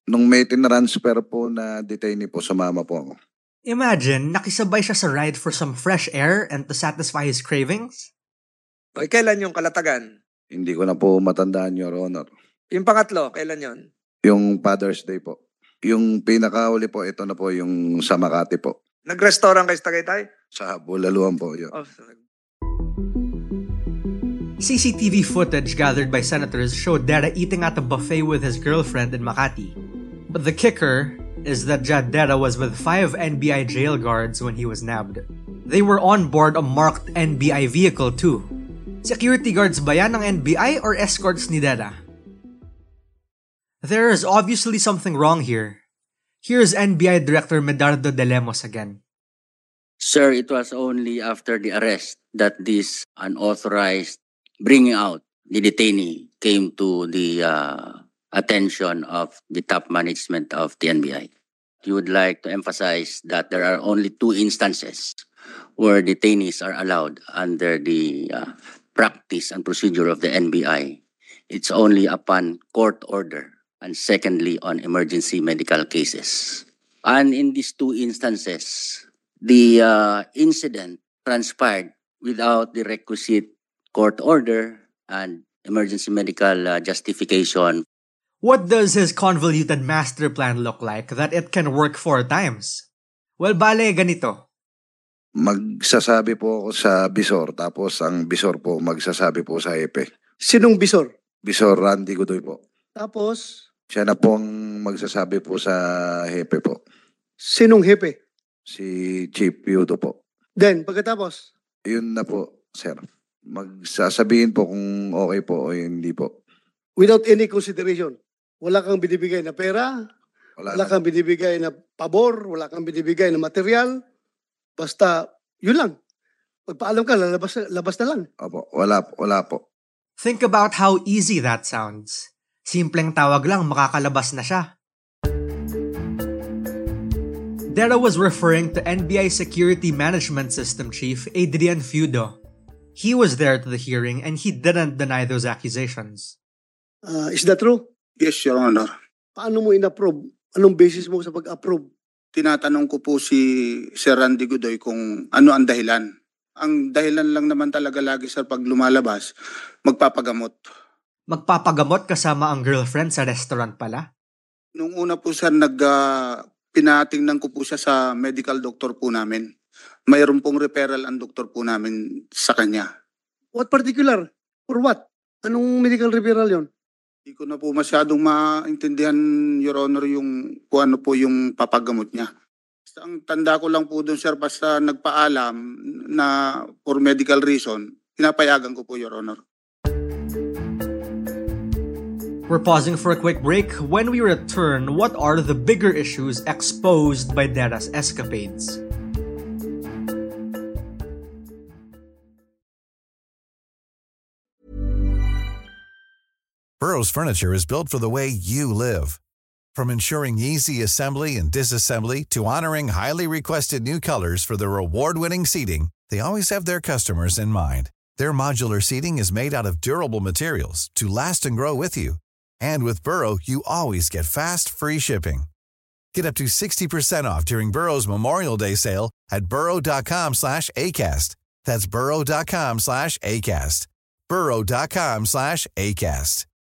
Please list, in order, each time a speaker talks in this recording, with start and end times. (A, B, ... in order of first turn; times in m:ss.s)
0:00.1-0:03.1 A
0:03.6-0:08.1 B
0:08.9-0:10.1 C
0:10.5-0:12.3 A
0:12.7-0:13.8 C
0:14.3-0:15.3 A
0:15.9-0:18.7 A
0:19.0-0:20.2 C
0:20.6-0:21.7 A
0:21.7-0:22.2 C
0:24.6-0:29.8 B
0:30.3-0:38.5 B
0:39.0-0:42.0 B
0:43.8-0:45.8 B
0:46.4-0:49.0 B
0:50.0-1:01.3 D
1:01.8-1:05.2 D
1:05.8-1:11.0 D
1:11.5-1:27.8 D
1:28.4-1:32.8 B
1:33.4-1:34.4 B
1:35.4-1:40.0 A
1:40.5-1:41.1 E
1:41.5-1:42.6 A
1:43.0-1:43.4 E
1:43.9-1:45.8 A
1:46.3-1:46.8 A
1:47.5-1:48.1 E
1:48.7-1:50.1 A
1:50.6-1:51.3 E
1:51.9-1:56.3 A
1:57.0-1:59.8 E
2:00.6-2:01.0 A
2:01.1-2:03.9 E
2:04.8-2:05.1 E
2:05.6-2:05.9 E
2:06.7-2:08.2 E
2:08.4-2:09.6 A
2:10.2-2:14.7 B
2:17.7-2:22.4 B
2:23.0-2:26.4 B
2:27.1-2:27.7 E
2:28.2-2:28.9 F
2:29.4-2:31.8 E
2:32.4-2:33.4 F
2:34.0-2:36.1 F
2:36.6-2:39.3 F
2:39.8-2:40.7 F
2:41.3-2:44.0 B
2:44.8-2:46.0 F
2:46.7-2:49.4 F
2:50.1-2:52.8 F
2:53.6-2:56.6 E
2:57.3-3:02.3 F
3:02.9-3:05.6 F
3:06.8-3:09.4 F
3:12.5-3:18.8 B
3:26.8-3:29.2 G
3:29.7-3:45.5 G
3:46.1-3:56.4 G